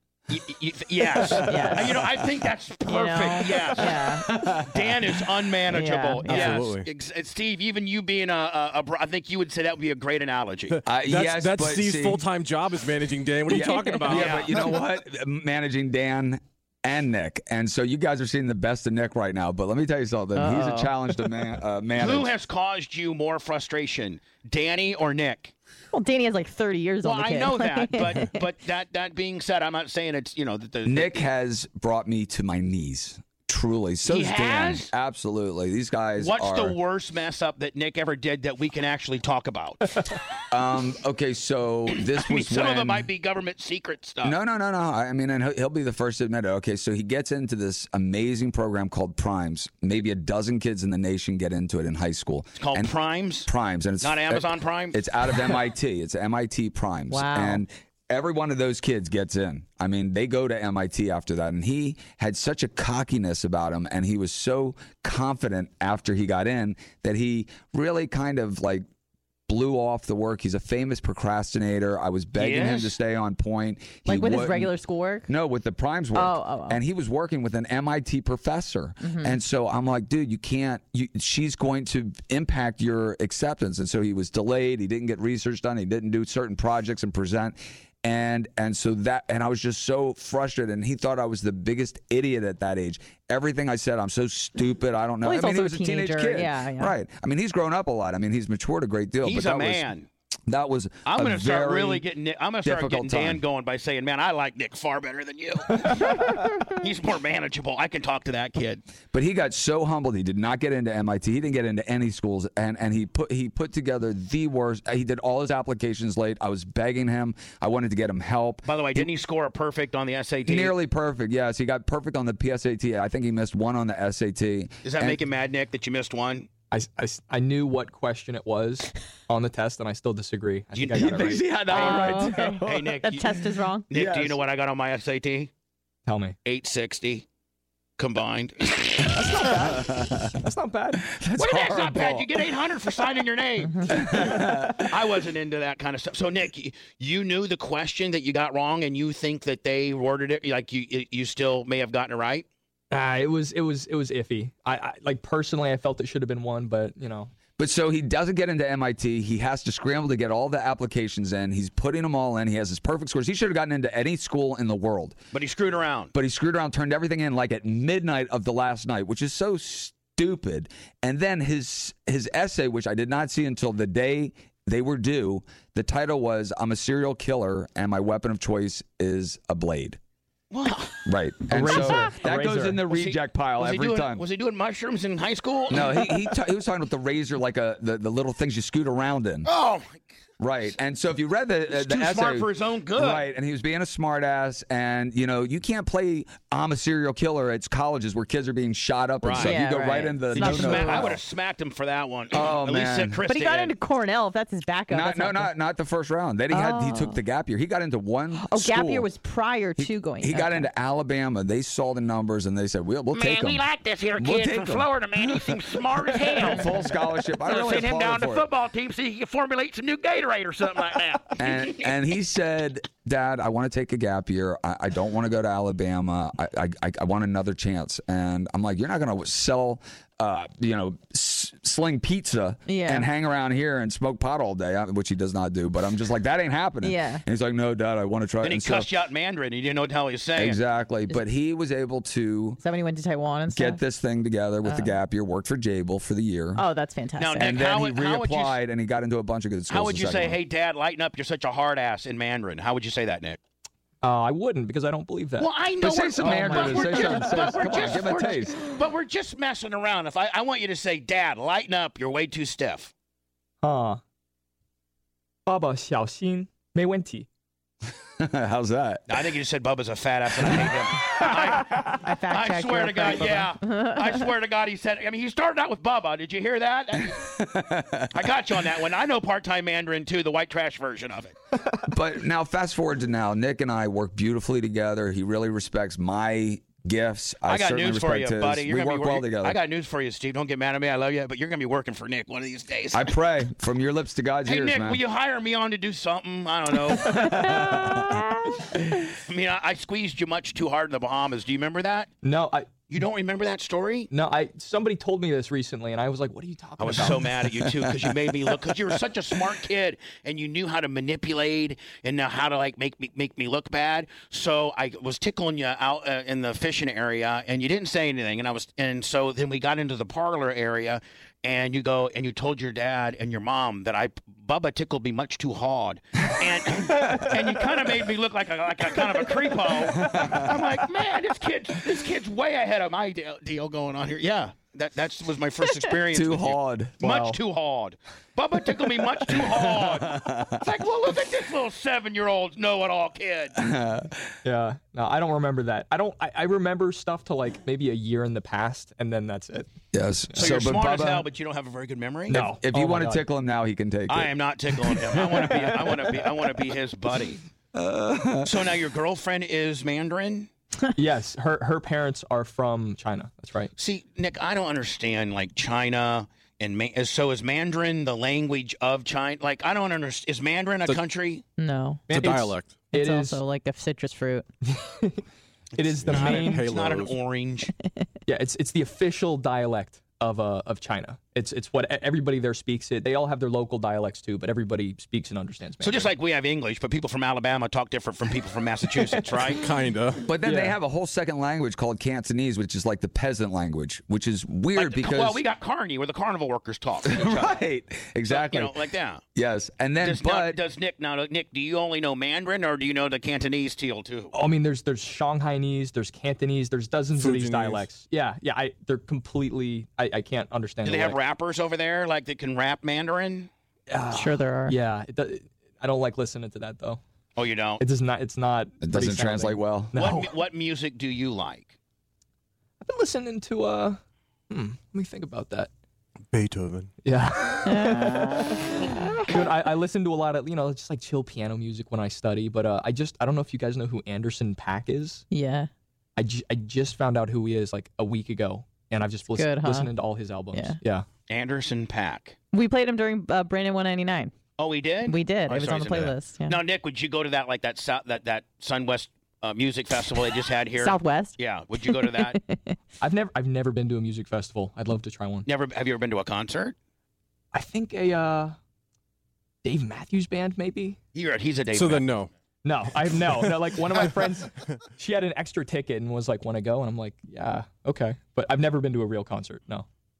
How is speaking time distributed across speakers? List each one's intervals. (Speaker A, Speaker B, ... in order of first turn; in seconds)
Speaker A: 0.3-4.2, 4.7-10.8, 14.1-14.5, 22.0-25.5, 27.0-31.2, 34.0-34.9, 36.2-40.0, 42.0-44.4, 52.6-53.5, 54.0-55.0, 72.4-72.9, 99.2-100.1, 101.0-108.8, 118.6-120.7, 124.8-126.5, 130.7-135.5, 136.4-137.2, 138.0-139.2, 141.4-152.4, 165.3-166.1, 180.5-181.0, 182.9-186.1, 189.4-190.1, 191.7-193.2, 199.2-199.6, 200.3-203.7, 213.1-216.7, 217.4-221.9, 238.4-240.6, 247.2-248.6, 249.7-253.4, 255.4-262.9, 269.1-277.3, 278.1-281.3, 287.5-293.1, 294.4-297.7, 299.2-302.1, 302.9-304.1, 306.8-343.6, 350.4-352.5, 354.1-357.4, 358.4-360.5, 363.8-371.4, 375.9-377.7, 385.8-389.6, 394.7-397.5, 398.3-399.2, 400.0-404.3, 410.8-413.5, 417.4-417.8, 419.9-421.7, 441.3-442.4, 444.6-452.4, 455.4-456.7, 461.1-462.1
Speaker B: 1.2-2.1, 4.1-5.3, 10.8-12.2, 13.5-22.3, 30.8-36.8, 40.5-43.1, 44.2-52.9, 53.5-68.8, 69.5-74.7, 75.3-99.9, 100.5-102.0, 102.6-103.4, 109.1-119.1, 120.5-125.2, 130.9-133.0, 133.9-134.4, 139.6-140.2, 141.0-142.4, 143.9-144.9, 157.6-165.2, 166.1-180.0, 181.0-184.2, 185.7-189.5, 190.4-201.2, 202.3-203.2, 204.9-209.1, 209.8-213.6, 214.2-218.5, 221.4-238.9, 240.3-242.6, 243.5-246.6, 247.3-250.4, 255.8-258.6, 268.2-269.2, 277.1-278.1, 281.9-289.6, 292.9-295.0, 297.2-298.1, 329.9-330.6, 336.1-337.0, 339.3-340.6, 343.6-344.1, 349.9-351.3, 352.6-355.2, 357.7-358.7, 390.2-395.4, 397.1-398.8, 399.3-400.6, 418.8-419.9
Speaker C: 1.3-2.1, 2.9-4.3, 5.7-6.6, 13.5-14.1, 20.4-20.9, 25.9-28.4, 57.1-57.6, 74.1-75.3, 76.1-76.8, 79.0-79.4, 95.2-96.9, 131.7-133.8, 143.6-144.0, 199.4-201.1, 203.3-205.5, 206.5-207.2, 208.4-210.7, 232.7-233.1, 236.8-237.2, 242.6-243.8, 244.6-244.9, 246.6-247.5, 256.2-258.3, 271.5-274.0, 297.6-298.1, 371.6-372.1, 372.9-374.4, 414.1-414.8, 427.6-429.1, 435.3-435.7, 439.4-439.9, 442.5-444.3, 445.0-446.6, 450.8-451.4, 451.9-452.7
Speaker D: 6.2-6.9, 10.7-14.6, 372.1-372.8, 376.1-377.1, 389.5-390.2, 407.1-407.9, 426.3-426.9, 461.7-462.3
Speaker E: 126.7-131.4, 136.1-136.3, 139.1-141.0, 152.9-157.3, 181.5-182.8, 254.0-255.5, 263.6-264.0, 265.4-267.3, 302.2-302.7, 304.1-307.2, 337.0-337.4, 344.4-349.7, 352.3-353.2, 360.9-363.7, 372.1-373.4, 374.6-375.2, 375.8-376.6, 378.3-386.1, 390.4-390.7, 404.3-411.1, 413.9-417.0, 417.8-420.3, 422.8-425.7, 427.0-428.6, 429.2-435.2, 436.1-441.1, 453.0-455.5, 457.5-458.6, 459.6-461.0, 462.6-469.9